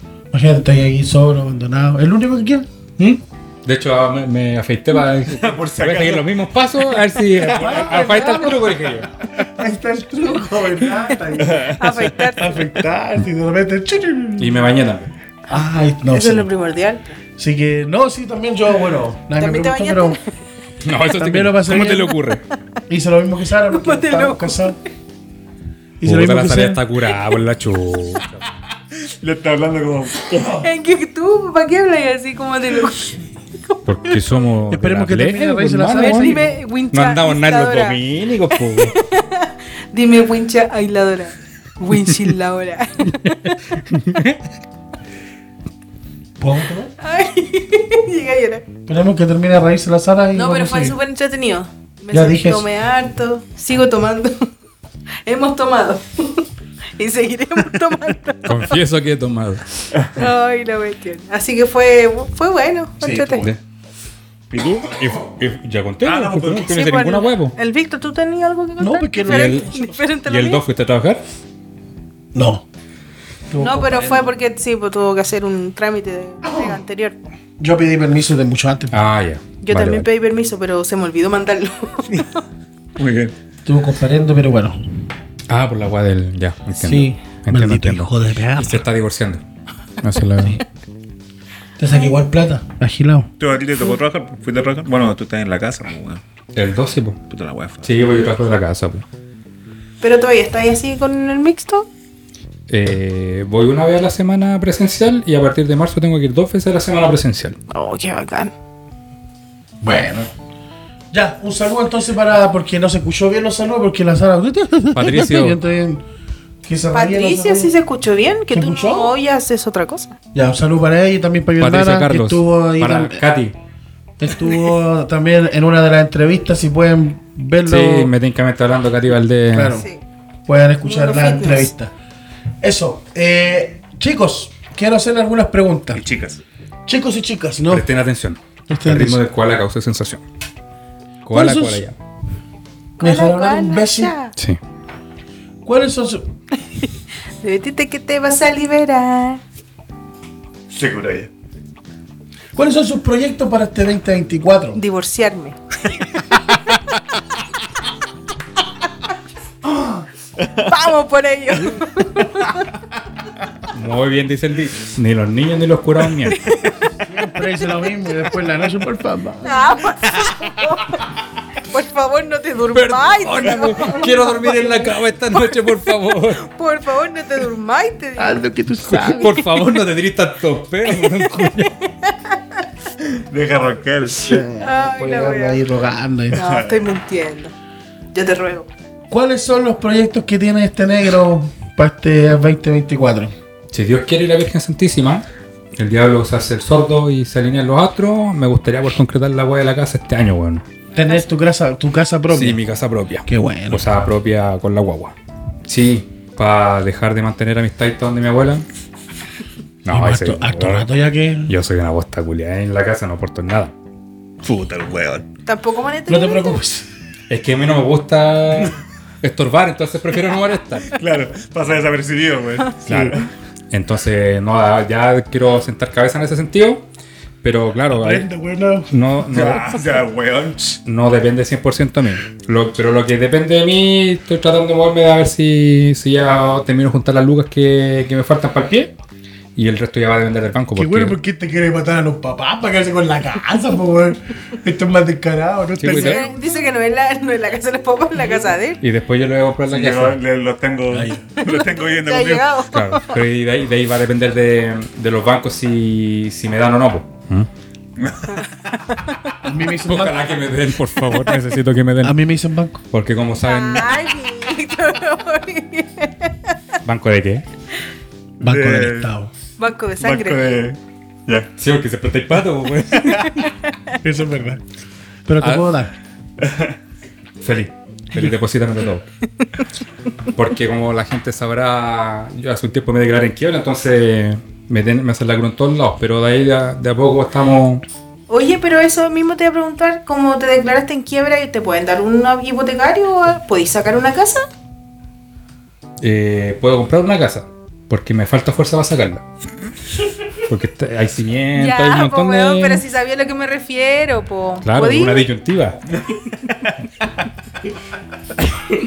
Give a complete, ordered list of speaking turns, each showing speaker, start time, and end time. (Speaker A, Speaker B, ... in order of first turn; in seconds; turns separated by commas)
Speaker A: 0.3-2.7, Speaker B: 3.0-9.1, Speaker C: 5.2-6.3, Speaker C: 7.4-8.1, Speaker A: 7.4-14.7, Speaker C: 11.4-12.1, Speaker D: 11.8-12.7, Speaker B: 14.4-15.1, Speaker A: 15.5-16.5, Speaker D: 16.0-17.2, Speaker A: 17.4-20.2, Speaker D: 19.3-20.2, Speaker B: 20.8-22.4, Speaker A: 21.2-22.2, Speaker A: 22.9-24.8, Speaker D: 23.7-24.8, Speaker A: 26.0-26.8, Speaker B: 26.0-28.4, Speaker C: 29.0-30.7, Speaker D: 30.5-34.4, Speaker B: 33.9-39.0, Speaker A: 34.7-36.5, Speaker D: 36.0-43.8, Speaker B: 43.9-44.4, Speaker A: 46.4-46.9, Speaker D: 47.0-48.6, Speaker A: 48.9-51.0, Speaker D: 50.3-54.5, Speaker A: 52.1-52.7, Speaker D: 55.2-58.8, Speaker B: 58.5-59.8, Speaker D: 60.1-63.5, Speaker A: 63.0-63.5, Speaker C: 64.5-65.0, Speaker B: 64.5-67.6, Speaker C: 66.0-66.8, Speaker D: 66.7-70.6, Speaker A: 68.8-70.1, Speaker B: 69.3-69.7, Speaker B: 70.2-71.2, Speaker A: 72.3-72.7, Speaker A: 73.5-74.3, Speaker D: 73.6-77.2, Speaker A: 76.4-76.8, Speaker A: 77.6-79.0, Speaker B: 78.9-80.1, Speaker D: 79.6-82.4, Speaker C: 83.0-83.4, Speaker A: 83.7-84.8, Speaker B: 85.5-89.4, Speaker A: 86.7-88.9, Speaker B: 90.0-90.6, Speaker A: 91.8-93.3, Speaker C: 93.4-96.2, Speaker B: 96.5-97.2, Speaker C: 97.3-97.9, Speaker B: 97.8-99.0, Speaker D: 100.0-101.9, Speaker B: 102.7-107.6, Speaker D: 107.7-108.5, Speaker A: 109.8-110.3, Speaker A: 111.1-116.0, Speaker B: 114.9-115.6, Speaker A: 116.6-117.7, Speaker D: 116.9-120.1, Speaker A: 118.5-119.2, Speaker A: 120.3-123.2, Speaker B: 121.6-123.5, Speaker A: 124.2-128.1, Speaker B: 127.6-129.8, Speaker A: 129.5-129.9, Speaker D: 129.8-130.0, Speaker A: 130.5-131.9, Speaker D: 130.8-131.7, Speaker A: 132.6-136.0, Speaker C: 135.9-136.4, Speaker A: 136.9-137.9, Speaker B: 137.7-140.2, Speaker A: 138.7-139.2, Speaker B: 141.2-141.9, Speaker A: 141.3-141.8, Speaker A: 143.0-144.1, Speaker D: 143.0-144.3, Speaker A: 145.6-146.3, Speaker D: 147.4-149.4, Speaker C: 150.7-151.3, Speaker A: 152.6-154.8, Speaker D: 154.8-155.6, Speaker D: 160.7-162.7, Speaker B: 163.7-166.4, Speaker D: 166.3-167.0, Speaker A: 167.0-169.8, Speaker D: 169.4-175.8, Speaker B: 172.7-176.4, Speaker D: 176.3-178.4, Speaker A: 178.2-179.4, Speaker B: 178.9-181.8, Speaker D: 180.9-182.6, Speaker C: 183.0-184.4, Speaker A: 184.2-186.4, Speaker D: 184.6-185.6, Speaker C: 186.3-186.8, Speaker D: 186.3-187.5, Speaker D: 188.1-188.7, Speaker A: 189.1-193.3, Speaker B: 193.7-195.2, Speaker B: 195.8-200.7, Speaker D: 200.9-201.2, Speaker A: 200.9-202.6, Speaker B: 202.3-205.2, Speaker A: 203.3-203.9, Speaker B: 205.7-208.7, Speaker B: 209.8-210.9, Speaker A: 209.9-211.5, Speaker B: 211.5-213.7, Speaker C: 214.4-215.3, Speaker D: 215.5-216.6, Speaker A: 216.1-216.9, Speaker B: 217.3-221.0, Speaker C: 220.9-223.3, Speaker B: 222.9-223.2, Speaker B: 223.7-226.9, Speaker B: 227.4-228.3, Speaker A: 227.9-229.5, Speaker B: 228.9-229.8, Speaker C: 229.3-230.8, Speaker B: 230.9-238.9, Speaker B: 239.6-241.2, Speaker A: 240.8-246.5, Speaker B: 245.8-246.3, Speaker D: 245.8-248.8, Speaker B: 248.8-250.2, Speaker C: 249.7-252.5, Speaker A: 250.9-251.2, Speaker D: 251.4-253.2, Speaker B: 252.7-257.5, Speaker C: 258.0-258.5, Speaker D: 258.9-259.2, Speaker A: 259.4-260.4, Speaker B: 259.9-262.2, Speaker A: 262.0-262.8, Speaker B: 262.9-264.0, Speaker D: 263.4-266.6, Speaker B: 266.9-267.4, Speaker C: 268.4-269.1, Speaker A: 268.4-269.3, Speaker D: 269.6-270.5, Speaker C: 270.0-271.5, Speaker B: 271.6-273.5, Speaker D: 273.1-274.0, Speaker A: 274.0-274.6, Speaker A: 275.3-275.9, Speaker B: 275.4-275.7, Speaker C: 276.4-276.8, Speaker B: 277.4-279.1, Speaker B: 280.3-287.8, Speaker D: 288.3-294.5, Speaker B: 296.0-299.2, Speaker B: 300.5-302.8, Speaker D: 301.5-305.3, Speaker B: 304.6-305.8